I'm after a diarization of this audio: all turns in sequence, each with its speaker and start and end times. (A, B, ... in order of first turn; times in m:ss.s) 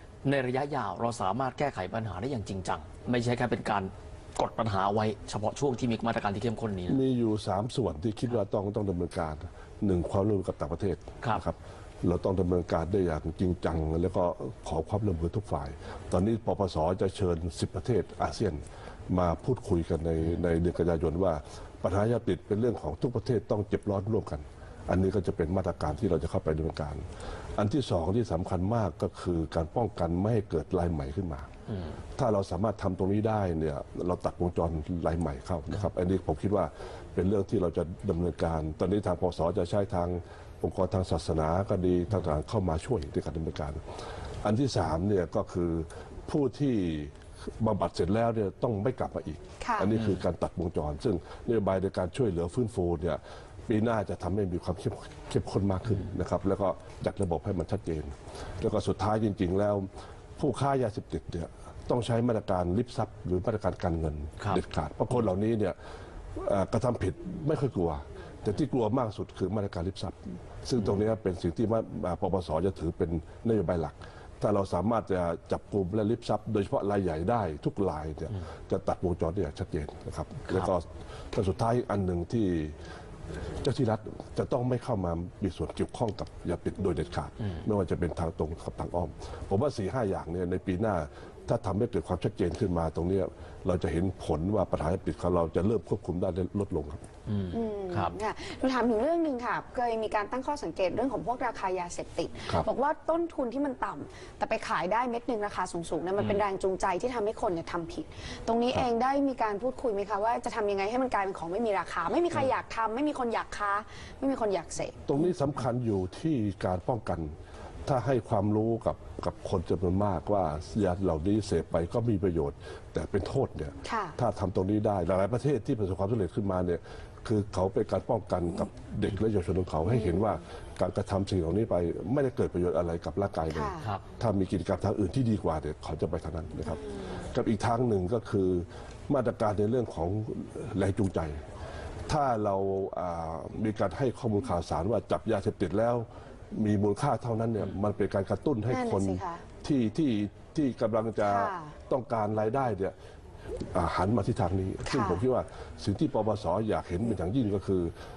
0:00.2-0:07.0 A
0:06.9-0:27.0 B
0:27.6-0:31.5 B
0:32.2-0:43.8 B
0:44.4-1:05.8 B
0:49.6-0:49.9 C
1:06.4-1:22.8 B
1:23.6-1:37.0 B
1:37.3-1:38.2 A
1:37.5-1:55.3 C
1:46.2-1:46.4 A
1:55.1-1:57.3 B
1:57.9-2:21.4 B
2:03.8-2:04.2 C
2:09.8-2:10.3 C
2:13.5-2:13.9 C
2:22.1-2:33.0 B
2:28.7-2:29.4 C
2:31.2-2:31.8 C
2:33.7-2:37.9 B
2:34.8-2:35.2 C